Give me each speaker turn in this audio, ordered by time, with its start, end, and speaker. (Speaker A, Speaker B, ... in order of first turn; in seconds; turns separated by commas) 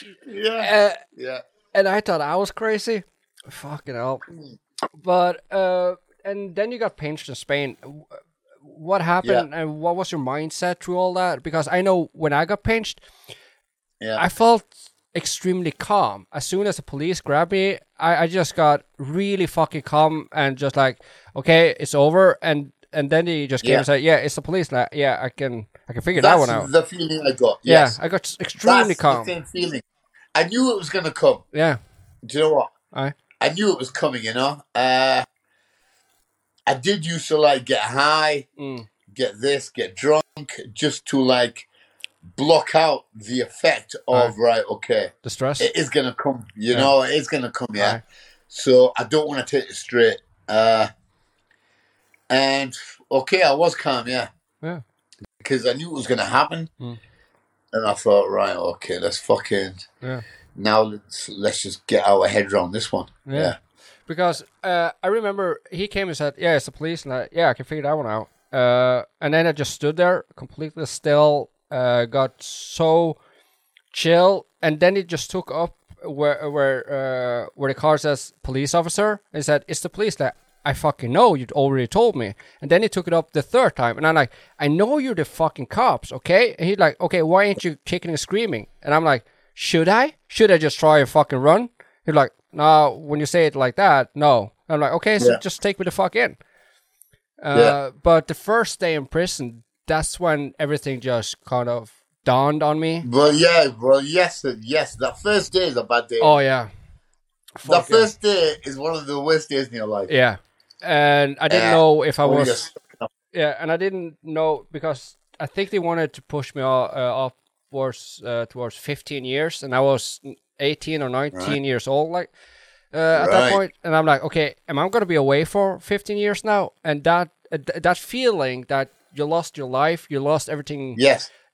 Speaker A: 0.2-1.4, Speaker B: 0.6-1.0, Speaker B: 1.7-4.2, Speaker B: 5.0-13.0, Speaker A: 14.0-14.2, Speaker B: 14.2-26.7, Speaker A: 26.2-28.0, Speaker B: 27.6-29.3, Speaker A: 28.6-29.8, Speaker A: 30.3-31.4, Speaker B: 31.5-31.8, Speaker A: 32.2-32.7, Speaker A: 33.4-35.2, Speaker A: 36.7-38.5, Speaker B: 38.6-38.9, Speaker A: 39.1-41.7, Speaker A: 42.4-50.9, Speaker B: 45.2-45.7, Speaker A: 52.3-54.3, Speaker A: 55.4-56.7, Speaker A: 57.7-59.9, Speaker A: 60.5-63.6, Speaker B: 63.3-63.5, Speaker B: 64.1-73.2, Speaker B: 73.9-96.4, Speaker B: 97.4-103.0, Speaker A: 103.0-106.4, Speaker B: 106.2-106.7, Speaker B: 107.6-108.1, Speaker A: 107.6-110.1, Speaker B: 110.1-112.6, Speaker A: 111.5-113.1, Speaker B: 113.3-122.3, Speaker B: 122.9-131.0, Speaker A: 123.1-123.6, Speaker A: 130.9-131.3